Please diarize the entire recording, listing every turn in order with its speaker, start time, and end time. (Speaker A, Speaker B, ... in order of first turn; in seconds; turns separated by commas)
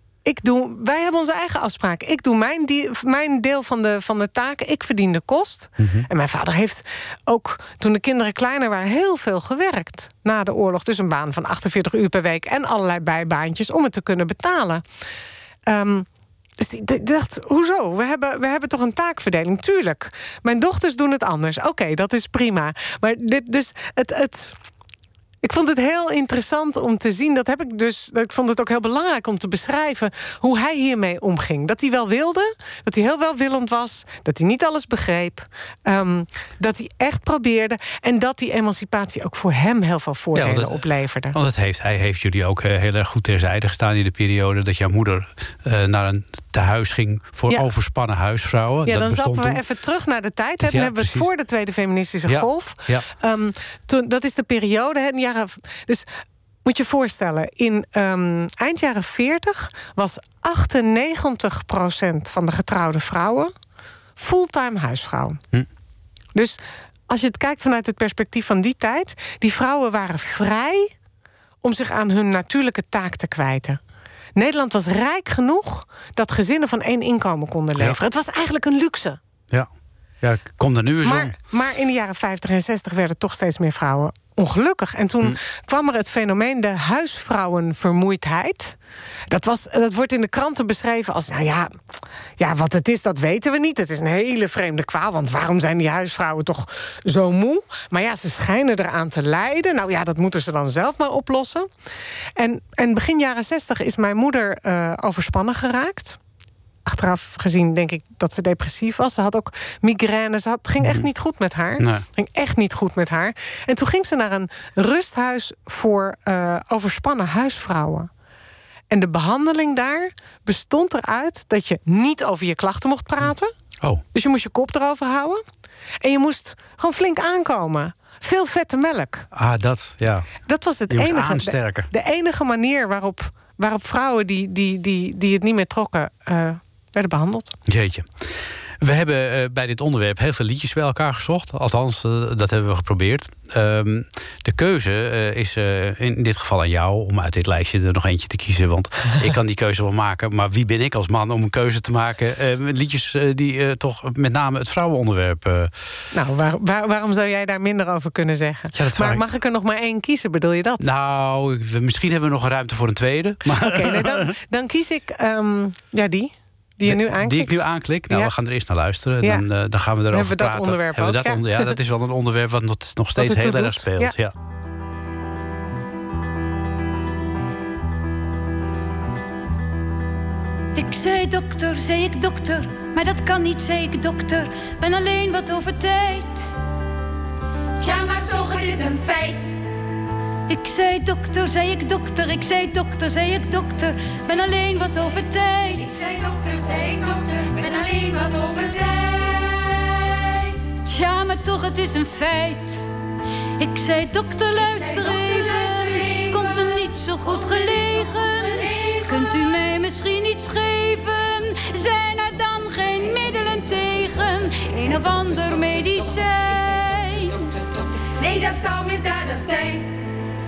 Speaker A: 0.2-14.8, Speaker B: 5.8-6.0, Speaker A: 15.7-16.1, Speaker A: 16.6-24.6, Speaker A: 25.4-41.4, Speaker B: 40.3-49.6, Speaker A: 48.9-56.1, Speaker B: 50.6-51.3, Speaker B: 52.3-53.0, Speaker A: 56.6-63.5, Speaker A: 64.2-65.4, Speaker A: 66.3-70.9, Speaker A: 71.6-73.8, Speaker A: 74.3-79.2, Speaker B: 80.2-81.3, Speaker A: 81.0-88.8, Speaker A: 89.3-91.7, Speaker A: 92.4-101.7, Speaker A: 102.4-106.2, Speaker A: 106.8-118.1, Speaker B: 110.8-111.1, Speaker B: 111.8-112.0, Speaker A: 118.9-123.5, Speaker A: 124.1-125.4, Speaker A: 126.0-129.3, Speaker B: 129.3-130.3, Speaker A: 130.5-137.6, Speaker B: 130.9-131.9, Speaker B: 137.7-155.7, Speaker A: 156.1-160.8, Speaker B: 158.7-159.2, Speaker B: 160.8-164.3, Speaker A: 163.5-168.3, Speaker B: 166.8-174.3, Speaker A: 170.1-171.8, Speaker A: 173.2-174.2, Speaker C: 180.7-186.5, Speaker D: 187.8-189.6, Speaker C: 190.5-195.9, Speaker D: 195.8-200.2, Speaker C: 200.8-202.9, Speaker C: 203.6-217.4, Speaker D: 204.6-209.5, Speaker D: 218.2-219.8